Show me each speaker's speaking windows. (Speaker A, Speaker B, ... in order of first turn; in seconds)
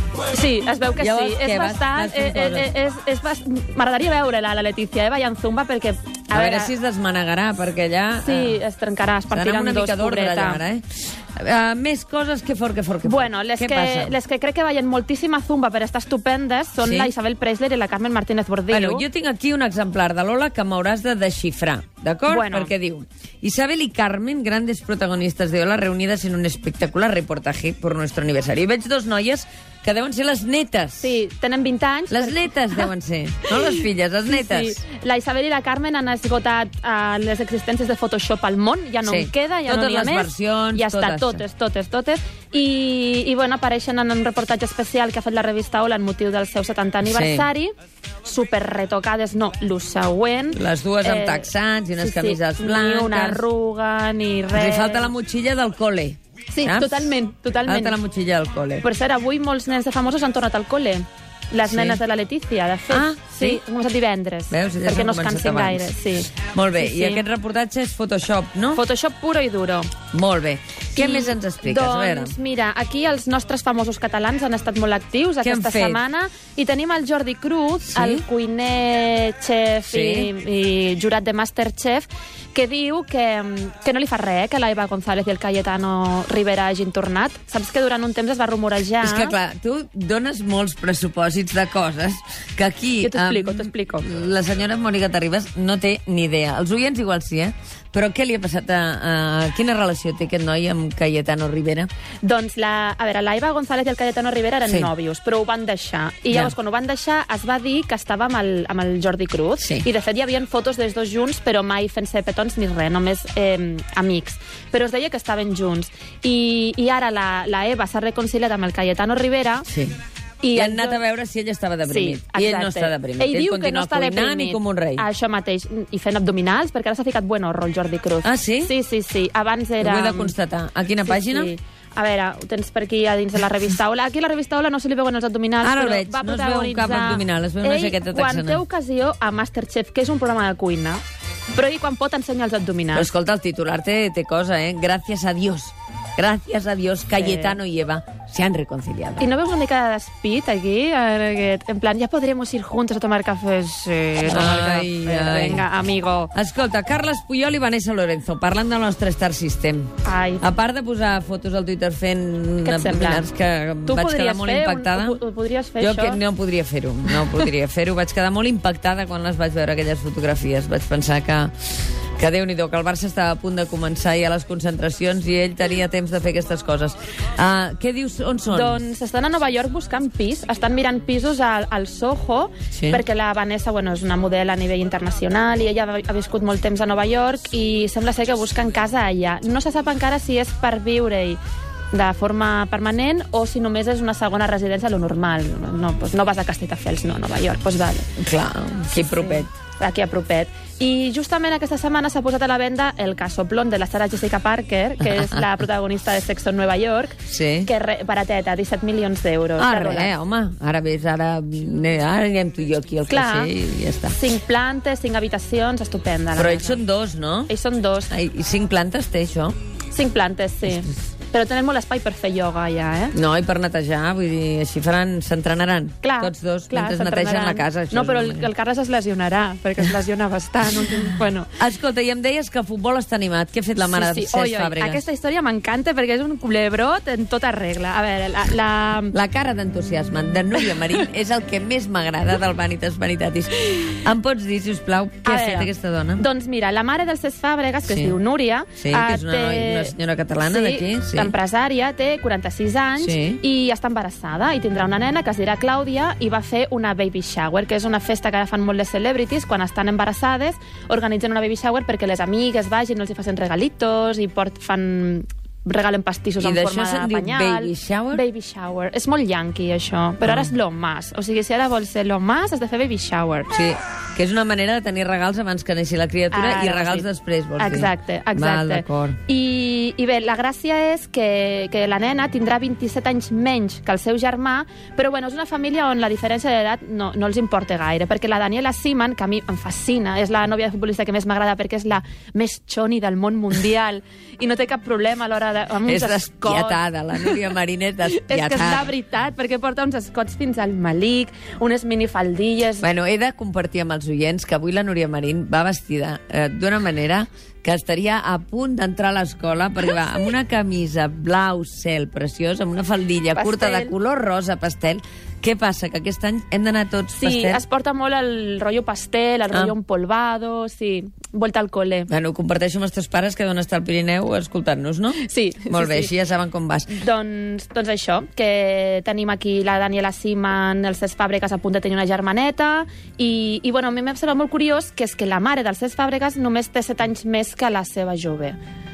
Speaker A: 0.3-6.7, 8.2-10.6, 13.0-19.1, 22.3-22.7, 31.0-32.9, 33.5-47.7, 48.2-55.1, 56.5-58.0, 58.8-67.2, 68.8-69.9, 71.0-89.3, 93.0-94.1, 102.2-119.7, 120.4-121.0, 121.9-130.3, 131.1-141.0, 141.5-143.1, 147.2-147.6, 149.2-156.3, 160.1-160.5, 162.6-163.3, 163.8-166.2, 178.5-191.4, 191.9-198.1, 198.9-210.1, 213.1-213.5, 214.2-216.8, 217.5-218.1, 219.9-223.2, 226.0-231.5, 233.8-239.2, 245.2-273.5, 276.3-277.1, 277.6-297.4, 298.1-302.9, 313.3-313.9, 317.2-322.1, 325.2-326.1, 326.9-338.6
Speaker B: 1.0-2.7, 6.3-8.6, 9.3-14.2, 16.8-17.1, 18.7-31.2, 32.1-34.8, 39.0-41.4, 47.0-47.5, 50.5-53.4, 54.5-57.1, 57.7-58.9, 61.6-62.0, 62.9-63.6, 64.5-68.8, 70.1-72.3, 75.4-76.0, 77.9-78.2, 79.9-80.3, 89.0-101.9, 109.6-109.9, 119.7-120.0, 120.5-125.0, 128.2-128.7, 129.8-131.5, 135.6-138.6, 142.9-149.3, 154.3-155.7, 156.3-159.9, 160.4-165.2, 165.8-171.5, 172.2-178.8, 182.7-183.0, 198.2-199.5, 205.0-205.5, 207.3-207.7, 209.6-214.2, 216.4-217.5, 218.1-219.6, 223.1-228.5, 231.6-235.0, 239.1-246.3, 247.9-248.2, 248.8-251.3, 253.0-253.4, 266.4-268.2, 270.2-270.5, 273.5-279.2, 295.9-298.9, 302.8-317.6, 322.1-326.9